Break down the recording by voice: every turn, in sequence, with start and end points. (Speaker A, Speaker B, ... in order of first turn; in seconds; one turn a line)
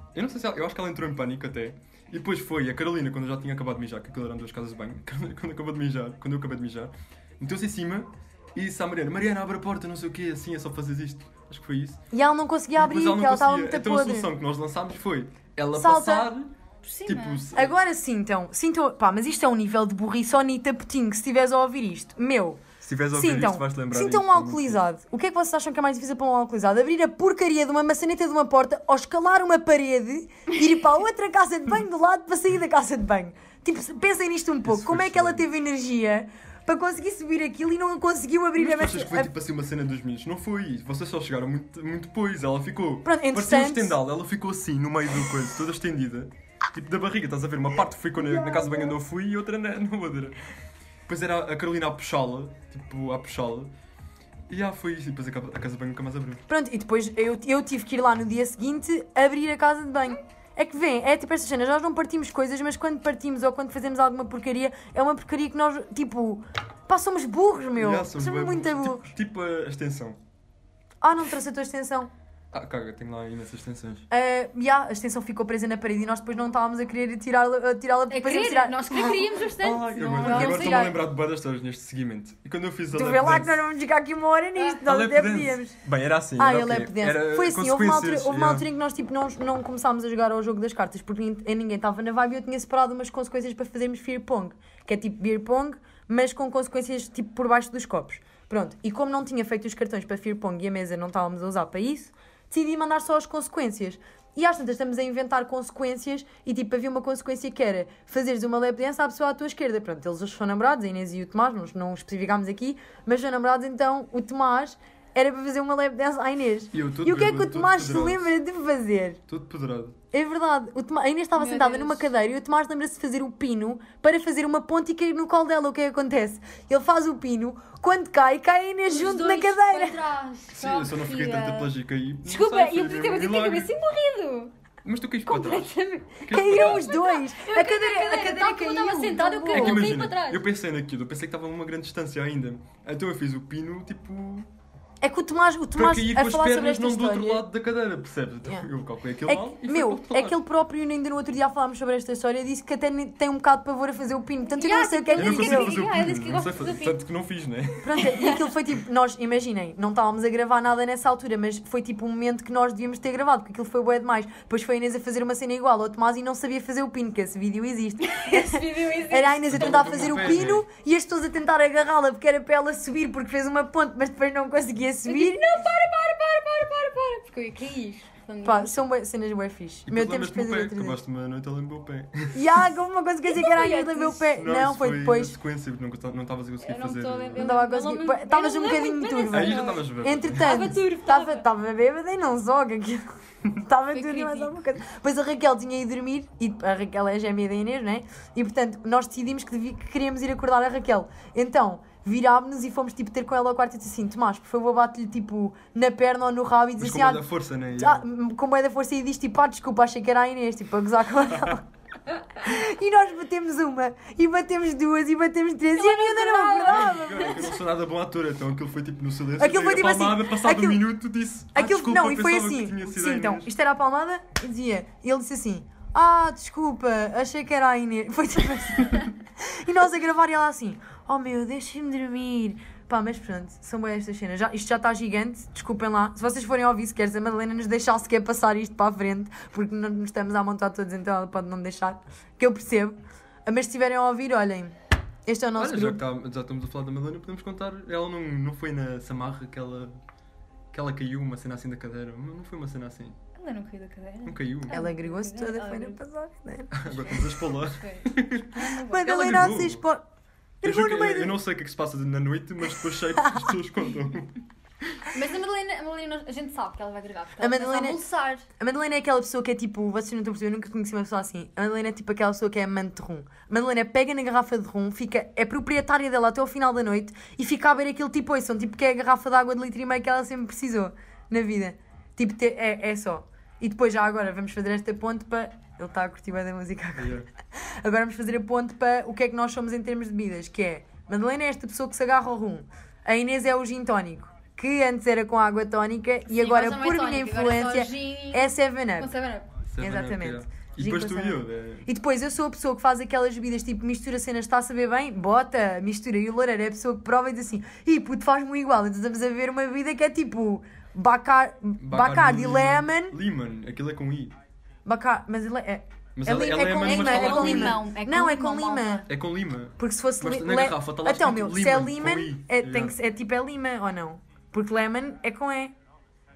Speaker A: 0.1-12.0
Speaker B: 12.1-14.3
Speaker A: 12.8-16.5
Speaker B: 15.7-16.3
Speaker C: 16.8-17.4
Speaker A: 17.1-17.8
Speaker B: 17.5-39.3
Speaker A: 22.8-24.8
Speaker A: 34.6-35.5
Speaker A: 38.6-50.4
Speaker B: 43.0-44.0
Speaker B: 48.2-48.9
Speaker A: 51.1-53.7
Speaker A: 54.5-56.4
Speaker B: 56.5-69.1
Speaker A: 67.8-70.2
Speaker B: 71.0-72.1
Speaker A: 72.5-74.1
Speaker B: 74.1-79.4
Speaker C: 78.1-80.9
Speaker A: 79.6-83.6
Speaker B: 80.2-81.0
Speaker B: 82.9-85.8
Speaker A: 84.9-88.7
Speaker B: 86.4-119.2
Speaker A: 116.7-118.3
Speaker A: 119.3-120.0
Speaker B: 120.1-130.0
Speaker C: 121.4-122.1
Speaker C: 128.9-134.5
Speaker A: 130.5-133.7
Speaker A: 134.8-136.9
Speaker C: 135.3-140.4
Speaker B: 136.3-139.9
Speaker A: 139.5-144.5
Speaker B: 145.0-147.5
Speaker A: 145.8-150.4
Speaker B: 149.3-155.7
Speaker C: 154.6-157.0
Speaker A: 155.2-157.9
Speaker B: 157.8-175.4
Speaker C: 168.0-170.4
Speaker A: 169.5-170.7
Speaker C: 175.1-178.9
Speaker B: 178.4-181.0
Speaker A: 179.9-182.6
Speaker B: 182.3-185.3
Speaker C: 183.2-184.3
Speaker A: 184.3-187.6
Speaker C: 186.6-189.8
Speaker B: 187.4-211.7
Speaker A: 189.3-190.7
Speaker C: 190.4-191.5
Speaker C: 193.9-194.5
Speaker A: 206.8-208.0
Speaker B: 212.4-217.4
Speaker C: 215.8-217.5
Speaker A: 216.7-223.5
Speaker B: 219.4-220.8
Speaker B: 221.5-246.0
Speaker A: 245.6-249.9
Speaker A: 250.7-253.2
Speaker C: 253.3-256.0
Speaker A: 254.2-254.8
Speaker B: 254.7-256.9
Speaker A: 256.7-259.9
Speaker C: 256.9-259.5
Speaker B: 258.9-260.0
Speaker B: 260.6-261.4
Speaker A: 260.6-265.1
Speaker C: 265.1-268.5
Speaker B: 267.4-268.0
Speaker B: 268.6-299.1
Speaker A: 287.0-287.3
Speaker C: 296.3-299.6
Speaker A: 299.7-301.9
Speaker B: 299.8-313.2
Speaker A: 311.8-314.4
Speaker B: 314.9-319.1
Speaker A: 316.2-317.8
Speaker C: 316.6-319.1
Speaker A: 319.1-323.0
Speaker B: 319.8-325.7